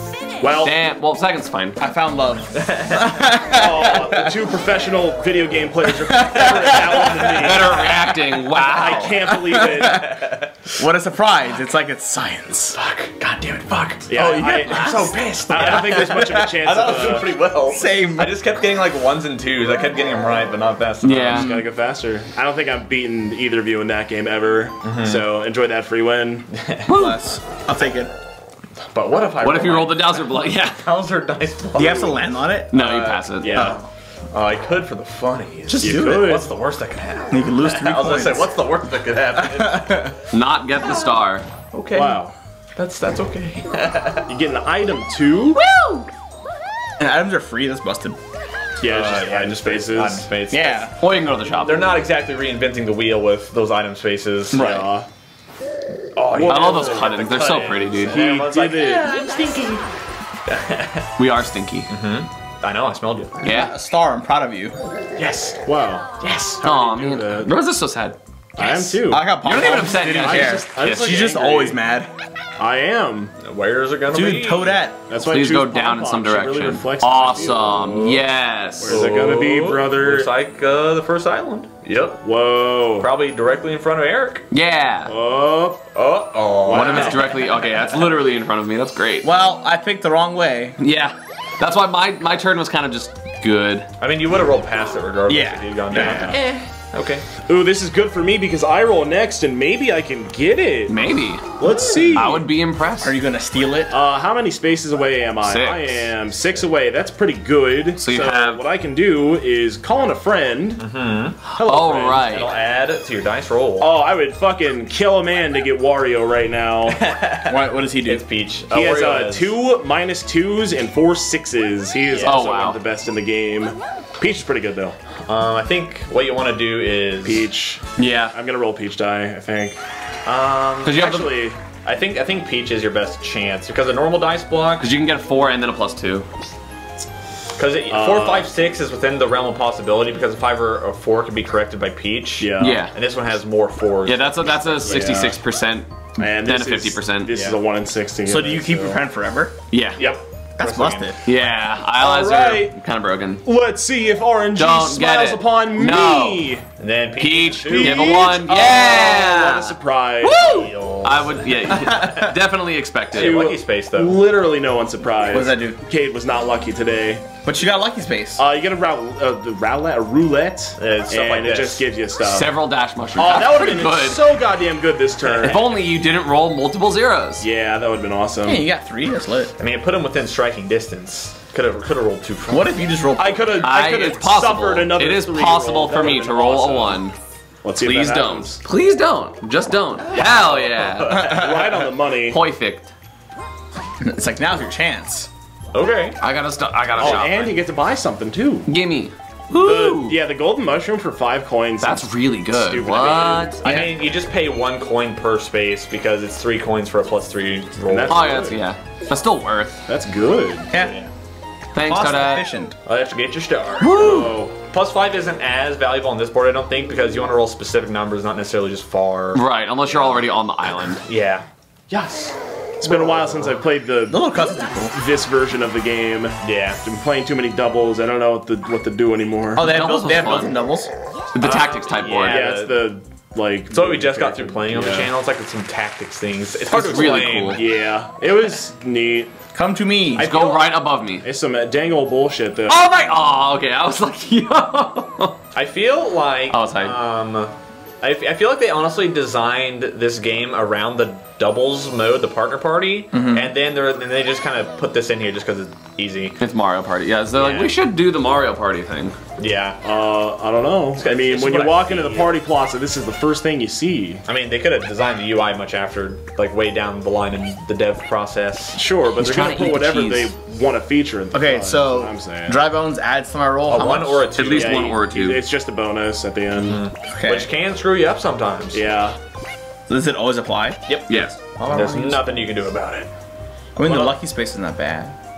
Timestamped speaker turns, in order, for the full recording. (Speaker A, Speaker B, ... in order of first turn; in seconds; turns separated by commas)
Speaker A: 0.4-0.7, Speaker B: 0.6-1.8, Speaker C: 1.8-4.3, Speaker D: 2.5-3.3, Speaker A: 3.5-7.8, Speaker C: 6.0-7.3, Speaker D: 6.4-8.0, Speaker B: 7.3-9.4, Speaker A: 8.6-10.1, Speaker C: 9.3-10.1, Speaker D: 9.5-10.8, Speaker C: 10.8-12.8, Speaker D: 12.8-21.5, Speaker A: 14.1-17.4, Speaker C: 14.2-15.2, Speaker C: 17.7-18.3, Speaker B: 21.0-21.5, Speaker C: 21.3-21.7, Speaker A: 21.3-26.5, Speaker D: 24.8-25.3, Speaker D: 26.5-26.9, Speaker B: 26.9-27.2, Speaker C: 26.9-28.1, Speaker D: 28.9-40.2, Speaker B: 29.4-30.8, Speaker C: 31.8-32.8, Speaker B: 32.7-33.7, Speaker A: 33.4-33.8, Speaker C: 33.5-33.8, Speaker C: 35.7-36.4, Speaker A: 35.8-36.5, Speaker C: 37.3-38.5, Speaker C: 39.4-40.1, Speaker B: 40.3-41.5, Speaker D: 41.7-42.2, Speaker A: 41.9-42.4, Speaker D: 42.8-44.3, Speaker A: 44.3-45.6, Speaker C: 45.6-46.1, Speaker C: 47.0-48.2, Speaker A: 48.8-50.3, Speaker D: 48.8-54.8, Speaker C: 50.5-50.9, Speaker B: 51.0-52.0, Speaker C: 54.5-54.9, Speaker A: 54.5-55.1, Speaker D: 56.1-59.8, Speaker A: 56.3-57.1, Speaker B: 56.5-58.1, Speaker A: 58.1-59.1, Speaker D: 60.5-61.1, Speaker B: 61.2-61.9, Speaker D: 61.9-63.4, Speaker B: 63.4-63.7, Speaker C: 63.4-64.8, Speaker D: 65.2-65.6, Speaker A: 65.6-66.1, Speaker D: 66.2-66.6, Speaker A: 66.6-67.5, Speaker B: 66.6-68.2, Speaker A: 68.6-69.4, Speaker D: 68.6-68.9, Speaker C: 69.0-72.1, Speaker B: 69.4-71.0, Speaker A: 70.1-71.8, Speaker A: 72.6-73.3, Speaker D: 73.4-74.8, Speaker C: 74.1-75.0, Speaker A: 75.1-78.2, Speaker B: 75.2-79.0, Speaker A: 78.8-80.3, Speaker D: 78.9-82.2, Speaker A: 82.2-83.1, Speaker D: 83.0-84.5, Speaker B: 84.5-85.1, Speaker A: 85.1-85.9, Speaker D: 86.0-87.4, Speaker A: 86.6-87.3, Speaker B: 86.7-89.3, Speaker C: 89.2-90.8, Speaker B: 90.8-93.9, Speaker D: 94.0-97.3, Speaker C: 95.3-96.4, Speaker A: 97.5-101.0, Speaker B: 100.9-101.5, Speaker A: 101.6-102.5, Speaker B: 102.1-103.2, Speaker C: 103.0-103.9, Speaker A: 103.9-110.8, Speaker B: 105.4-106.1, Speaker B: 108.0-108.6, Speaker D: 110.8-113.9, Speaker B: 111.6-112.5, Speaker C: 111.6-112.1, Speaker A: 113.8-117.0, Speaker D: 116.9-119.5, Speaker C: 117.5-118.2, Speaker A: 118.7-125.0, Speaker D: 122.1-122.4, Speaker B: 122.2-122.8, Speaker D: 125.3-127.5, Speaker A: 127.2-129.8, Speaker B: 128.0-128.3, Speaker D: 130.2-131.1, Speaker B: 130.8-131.4, Speaker A: 130.8-131.6, Speaker D: 131.7-134.9, Speaker B: 134.8-136.3, Speaker D: 137.6-145.3, Speaker A: 137.9-138.5, Speaker A: 142.4-142.9, Speaker B: 142.6-142.9, Speaker B: 144.1-147.4, Speaker A: 144.9-145.4, Speaker A: 146.2-149.0, Speaker D: 147.3-147.6, Speaker C: 148.3-149.6, Speaker B: 149.7-150.0, Speaker D: 150.0-151.1, Speaker C: 150.6-151.2, Speaker B: 151.2-153.4, Speaker A: 152.0-152.8, Speaker A: 153.4-156.7, Speaker B: 154.6-156.5, Speaker D: 156.8-158.1, Speaker B: 157.2-163.5, Speaker A: 157.2-160.5, Speaker D: 160.4-162.1, Speaker C: 161.8-162.3, Speaker D: 163.1-164.2, Speaker A: 163.1-167.3, Speaker C: 165.3-165.8, Speaker C: 167.4-168.4, Speaker A: 168.4-172.5, Speaker D: 170.8-171.9, Speaker B: 172.2-174.3, Speaker A: 173.2-175.7, Speaker B: 175.3-177.5, Speaker A: 177.4-178.7, Speaker C: 178.4-179.5, Speaker D: 179.6-182.7, Speaker C: 182.5-183.5, Speaker A: 183.2-187.0, Speaker B: 183.6-187.2, Speaker A: 187.6-188.6, Speaker B: 187.8-191.5, Speaker D: 190.0-191.6, Speaker A: 191.2-192.4, Speaker B: 192.3-192.9, Speaker C: 194.0-195.3, Speaker D: 195.7-196.2, Speaker B: 196.2-197.5, Speaker D: 197.0-197.3, Speaker A: 197.0-198.7, Speaker B: 198.7-200.2, Speaker A: 199.5-203.6, Speaker B: 201.8-203.6, Speaker D: 203.6-208.4, Speaker C: 203.6-204.0, Speaker A: 207.8-208.6, Speaker B: 208.1-209.8, Speaker A: 209.9-210.7, Speaker C: 210.7-211.0, Speaker D: 210.7-211.1, Speaker B: 211.7-212.4, Speaker C: 211.9-212.8, Speaker D: 212.8-220.1, Speaker C: 213.8-214.4, Speaker A: 213.9-214.5, Speaker B: 219.3-221.0, Speaker D: 221.0-222.3, Speaker A: 222.8-224.2, Speaker D: 222.9-223.3, Speaker C: 224.1-225.0, Speaker A: 224.9-229.7, Speaker D: 226.4-226.8, Speaker C: 229.6-230.9, Speaker B: 229.6-230.5, Speaker B: 231.3-232.5, Speaker D: 231.4-232.9, Speaker A: 232.2-235.1, Speaker D: 233.7-237.7, Speaker B: 236.7-237.6, Speaker A: 237.5-239.3, Speaker C: 239.5-240.3, Speaker B: 240.2-241.2, Speaker A: 240.2-242.8, Speaker B: 242.7-245.4, Speaker D: 245.6-256.4, Speaker B: 246.5-247.0, Speaker C: 253.1-253.5, Speaker B: 256.4-259.2, Speaker D: 257.3-257.7, Speaker D: 259.4-259.8, Speaker A: 259.8-264.2, Speaker D: 260.9-262.4, Speaker D: 264.3-268.8, Speaker A: 268.7-272.6, Speaker B: 269.2-270.3, Speaker C: 271.3-274.3, Speaker D: 273.7-275.0, Speaker B: 274.4-275.4, Speaker A: 274.5-276.8, Speaker D: 276.5-278.9, Speaker C: 277.1-277.5, Speaker A: 278.7-279.2, Speaker C: 279.9-280.8, Speaker D: 280.9-283.1, Speaker B: 281.1-281.4, Speaker C: 281.7-282.2, Speaker C: 283.8-285.1, Speaker D: 283.8-284.1